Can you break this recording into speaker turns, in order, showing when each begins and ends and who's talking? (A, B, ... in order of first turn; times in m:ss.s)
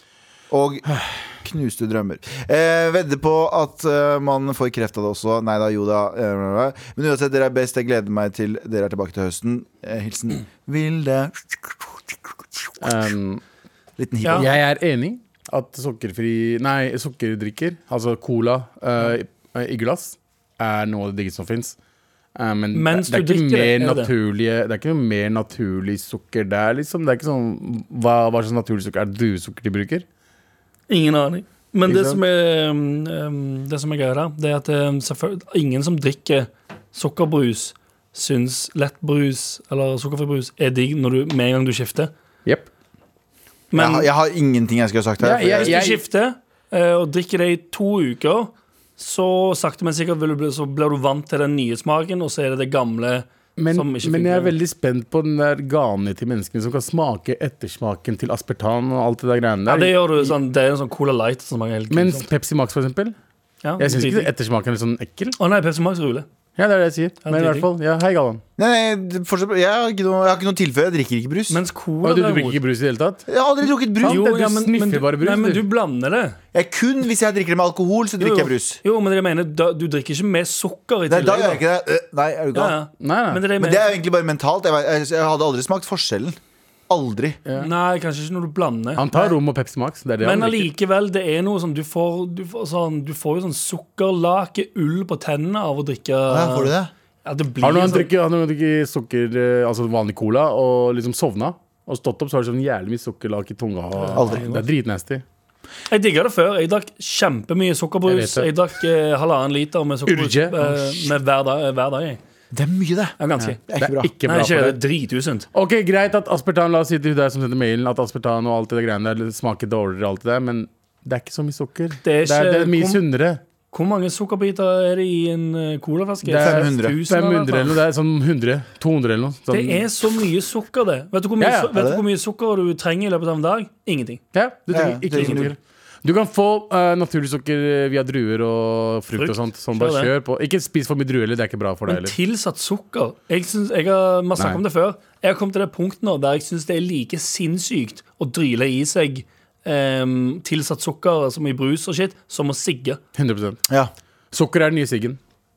0:00.5-0:12.2 A
0:12.8-0:13.4 B
0:14.0-0:14.5 A
0:14.3-0:21.8 B
0:22.4-0:30.0 B
0:22.7-0:24.1 C
0:30.9-0:42.1 C
0:31.8-0:32.2 B
0:43.7-0:44.1 C
0:43.7-0:45.8 A
0:45.2-0:46.0 B
0:45.5-0:54.5 C
0:53.6-1:00.4 B
0:59.7-1:02.2 C
1:01.9-1:03.2 B
1:03.6-1:04.3 C
1:03.8-1:05.4 B
1:05.4-1:06.2 C
1:06.6-1:08.4 B
1:07.2-1:07.7 C
1:08.6-1:11.6 A
1:11.5-1:12.6 C
1:12.0-1:13.2 B
1:13.3-1:14.2 A
1:14.0-1:15.7 B
1:14.0-1:16.4 C
1:16.5-1:18.8 A
1:18.2-1:21.6 C
1:21.0-1:22.7 A
1:22.5-1:23.8 C
1:23.0-1:23.4 B
1:23.6-1:26.4 A
1:26.9-1:27.4 A
1:27.4-1:27.7 B
1:27.6-1:29.3 C
1:29.0-1:30.7 B
1:30.2-1:36.7 C
1:36.3-1:36.9 A
1:37.2-1:38.1 C
1:37.6-1:45.2 B
1:44.0-1:44.6 C
1:44.2-1:44.4 A
1:45.9-1:52.2 C
1:48.0-1:48.5 B
1:50.1-1:51.1 B
1:52.5-1:53.2 A
1:53.2-1:53.6 C
1:53.4-1:54.8 B
1:53.7-1:54.1 A
1:54.2-1:55.5 C
1:55.5-2:03.4 B
2:02.0-2:03.0 C
2:03.7-2:07.7 C
2:06.2-2:09.9 B
2:06.4-2:07.0 A
2:09.5-2:14.2 C
2:11.4-2:11.7 B
2:11.7-2:12.0 A
2:14.3-2:22.2 B
2:14.7-2:15.5 A
2:15.1-2:15.5 C
2:19.2-2:20.1 C
2:21.8-2:33.0 C
2:33.1-2:33.6 B
2:34.3-2:35.2 B